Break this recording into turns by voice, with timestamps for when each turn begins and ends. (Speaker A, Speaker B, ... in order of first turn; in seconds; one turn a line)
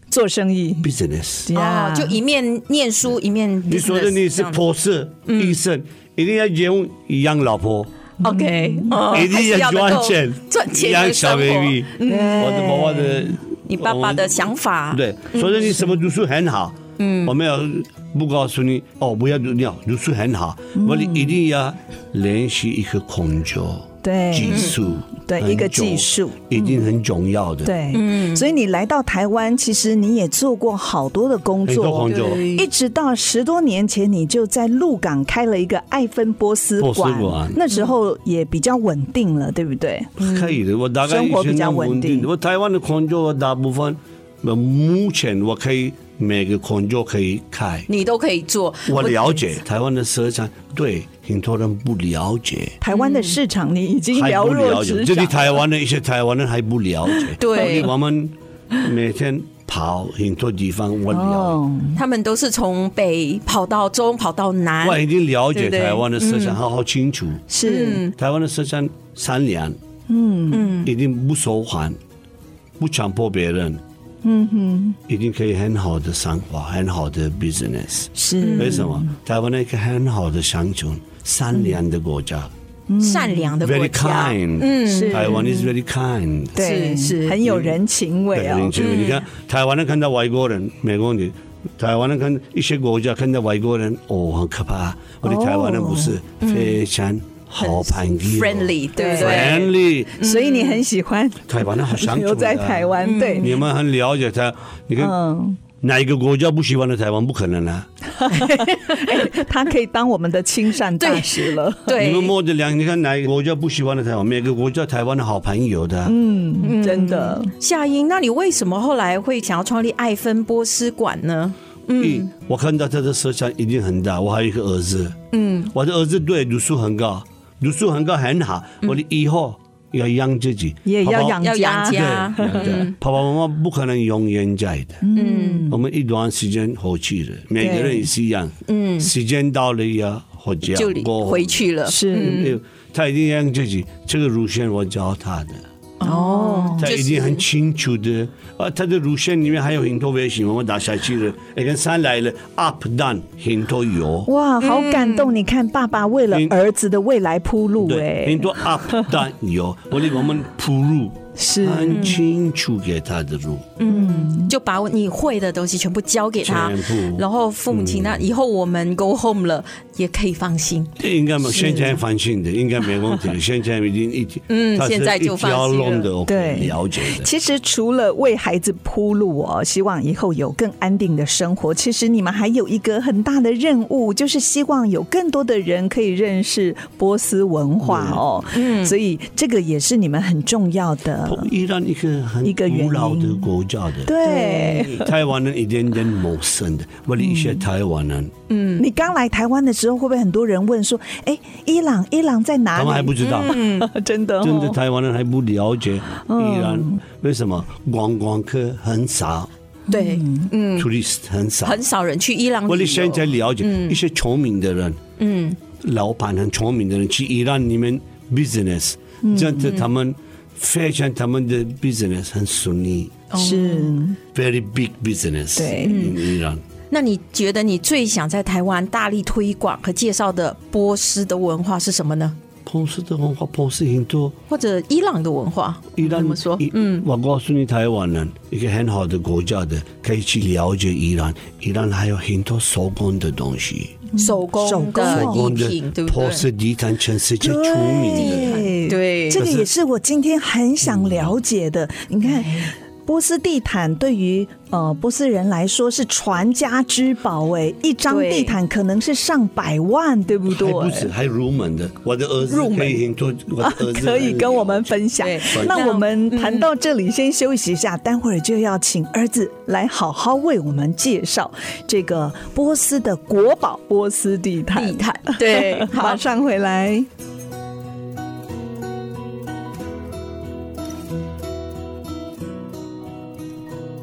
Speaker A: 0.1-0.9
Speaker B: 0.8-1.5
Speaker A: 1.4-2.2
Speaker C: 1.5-4.6
Speaker B: 3.7-7.9
Speaker C: 5.3-5.6
Speaker C: 8.2-12.5
Speaker A: 8.2-9.1
Speaker B: 9.0-27.7
Speaker A: 12.1-13.4
Speaker C: 13.7-15.7
Speaker C: 17.0-17.3
Speaker A: 20.8-21.4
Speaker A: 24.0-26.9
Speaker C: 24.5-24.7
Speaker A: 27.6-40.1
Speaker C: 27.9-28.4
Speaker B: 31.6-32.4
Speaker C: 32.1-32.7
Speaker B: 36.8-37.6
Speaker C: 40.2-40.5
Speaker B: 40.2-47.9
Speaker A: 41.0-42.3
Speaker C: 47.9-49.4
Speaker B: 48.9-52.8
Speaker A: 52.8-55.5
Speaker C: 52.9-53.4
Speaker B: 54.1-61.6
Speaker C: 57.4-57.9
Speaker A: 61.1-62.0
Speaker C: 61.9-65.0
Speaker B: 64.8-67.5
Speaker C: 65.5-66.6
Speaker A: 67.5-68.0
Speaker C: 67.6-68.1
Speaker B: 68.2-69.8
Speaker A: 70.1-70.8
Speaker C: 70.5-70.9
Speaker B: 70.8-72.0
Speaker B: 72.8-73.8
Speaker A: 74.2-75.0
Speaker B: 75.1-82.5
Speaker A: 78.2-79.1
Speaker C: 78.4-78.8
Speaker A: 82.9-83.5
Speaker C: 83.0-85.5
Speaker B: 83.6-86.6
Speaker A: 84.9-85.7
Speaker A: 86.5-88.8
Speaker C: 86.6-87.4
Speaker B: 87.4-87.8
Speaker B: 88.3-100.1
Speaker C: 88.8-89.2
Speaker A: 95.2-96.2
Speaker C: 96.4-96.8
Speaker C: 97.6-100.8
Speaker A: 99.0-99.6
Speaker A: 100.2-103.5
Speaker B: 101.5-105.2
Speaker C: 103.0-103.5
Speaker A: 105.0-105.6
Speaker B: 105.8-107.9
Speaker A: 108.2-112.0
Speaker C: 108.3-109.4
Speaker C: 111.0-112.3
Speaker B: 112.0-116.2
Speaker A: 116.0-117.5
Speaker C: 116.6-122.3
Speaker B: 122.0-125.2
Speaker C: 125.3-125.7
Speaker B: 125.7-135.0
Speaker A: 130.8-132.8
Speaker C: 131.2-132.9
Speaker A: 135.0-135.8
Speaker C: 135.1-135.7
Speaker B: 135.7-145.6
Speaker A: 137.6-138.1
Speaker C: 138.7-139.1
Speaker C: 140.7-142.5
Speaker A: 141.8-142.4
Speaker C: 146.0-147.4
Speaker A: 146.0-146.8
Speaker B: 146.8-154.3
Speaker A: 154.2-159.2
Speaker C: 154.6-155.3
Speaker B: 157.8-163.7
Speaker A: 161.4-162.2
Speaker C: 161.9-162.2
Speaker C: 163.8-170.9
Speaker A: 163.8-164.5
Speaker B: 166.4-168.2
Speaker B: 171.0-177.3
Speaker A: 171.4-172.0
Speaker C: 174.5-176.1
Speaker A: 176.2-191.5
Speaker B: 187.8-188.2
Speaker C: 188.5-188.9
Speaker B: 191.2-194.2
Speaker A: 192.4-193.5
Speaker A: 194.0-195.1
Speaker C: 194.2-195.0
Speaker B: 195.0-198.3
Speaker A: 197.2-197.6
Speaker C: 198.5-198.8
Speaker A: 198.8-204.8
Speaker B: 202.7-203.6
Speaker C: 203.2-203.9
Speaker B: 204.4-209.5
Speaker A: 206.2-207.0
Speaker A: 209.9-210.5
Speaker C: 209.9-210.9
Speaker B: 210.8-211.8
Speaker C: 211.6-214.0
Speaker B: 212.7-215.0
Speaker C: 215.2-215.6
Speaker B: 215.8-223.2
Speaker A: 219.2-219.8
Speaker C: 223.3-223.9
Speaker A: 223.3-224.2
Speaker B: 224.3-226.6
Speaker A: 225.6-226.1
Speaker C: 225.8-226.1
Speaker C: 226.9-232.4
Speaker B: 232.7-234.3
Speaker C: 234.5-237.0
Speaker B: 236.0-244.0
Speaker A: 244.1-245.5
Speaker C: 244.2-246.4
Speaker B: 245.0-248.7
Speaker A: 247.4-261.1
Speaker C: 248.1-249.4
Speaker B: 249.4-249.7
Speaker B: 250.8-251.3
Speaker C: 258.1-258.6
Speaker B: 260.5-264.9
Speaker C: 262.5-263.0
Speaker A: 263.6-277.1
Speaker C: 265.2-266.7
Speaker B: 265.5-265.8
Speaker C: 274.7-276.2